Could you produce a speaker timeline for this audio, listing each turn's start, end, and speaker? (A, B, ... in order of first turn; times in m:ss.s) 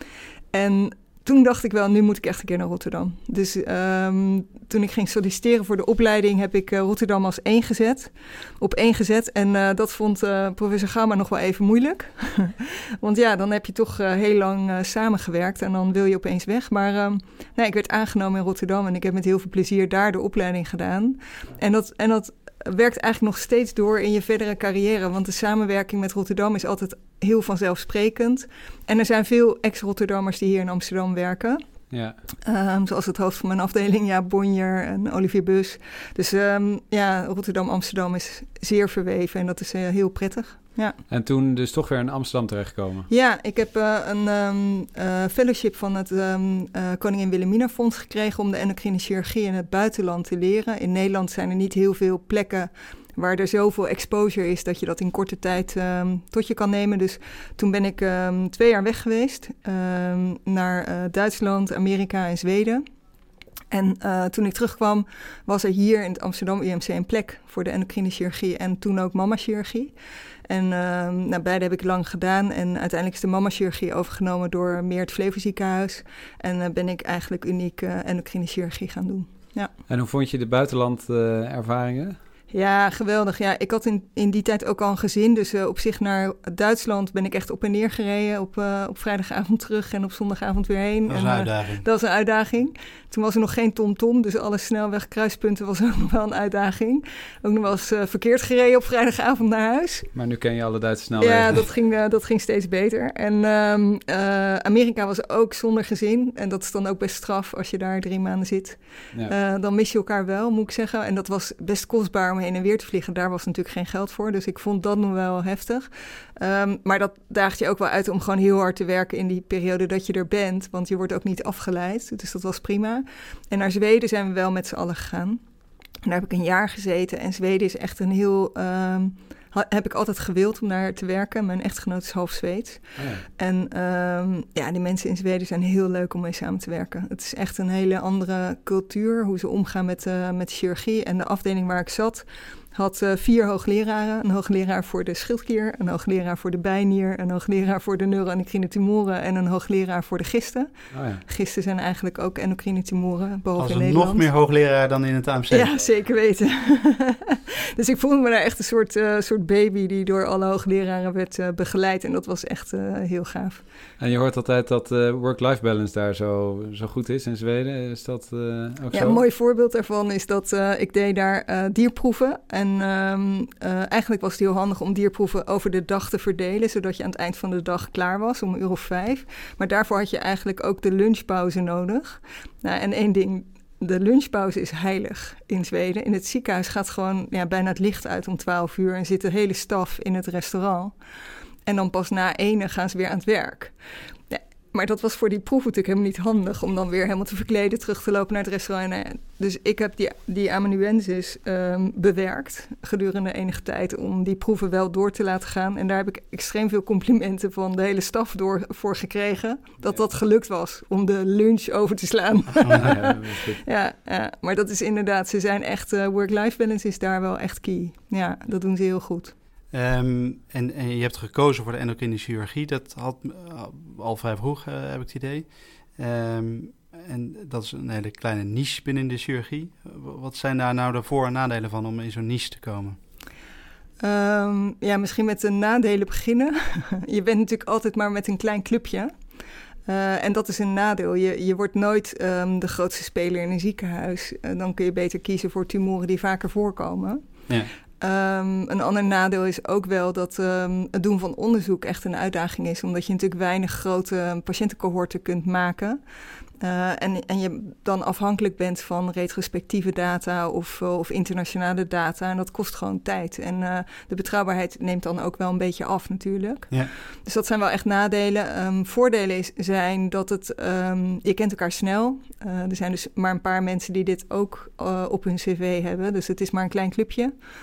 0:00.5-0:31.6 A
0:31.9-0:32.2 B
0:32.4-0:41.0 A
0:41.1-0:43.1 B
0:43.1-1:02.8 A
1:03.7-1:09.9 A
1:10.5-1:19.7 A
1:19.9-1:22.2 B
1:22.5-1:40.1 A
1:31.1-1:31.8 C
1:40.1-1:41.7 B
1:41.2-2:05.4 A
2:06.0-2:30.7 A
2:13.0-2:13.2 B
2:30.9-2:31.2 B
2:31.2-2:34.3 A
2:33.6-2:35.8 C
2:35.5-2:43.6 A
2:44.0-2:49.2 B
2:48.9-3:10.9 A
3:11.6-3:13.7 A
3:14.3-3:39.3 A
3:32.7-3:33.6 B
3:39.7-3:53.0 C
3:54.0-3:59.1 A
3:59.8-4:07.4 A
4:08.0-4:16.0 A
4:16.6-4:37.3 A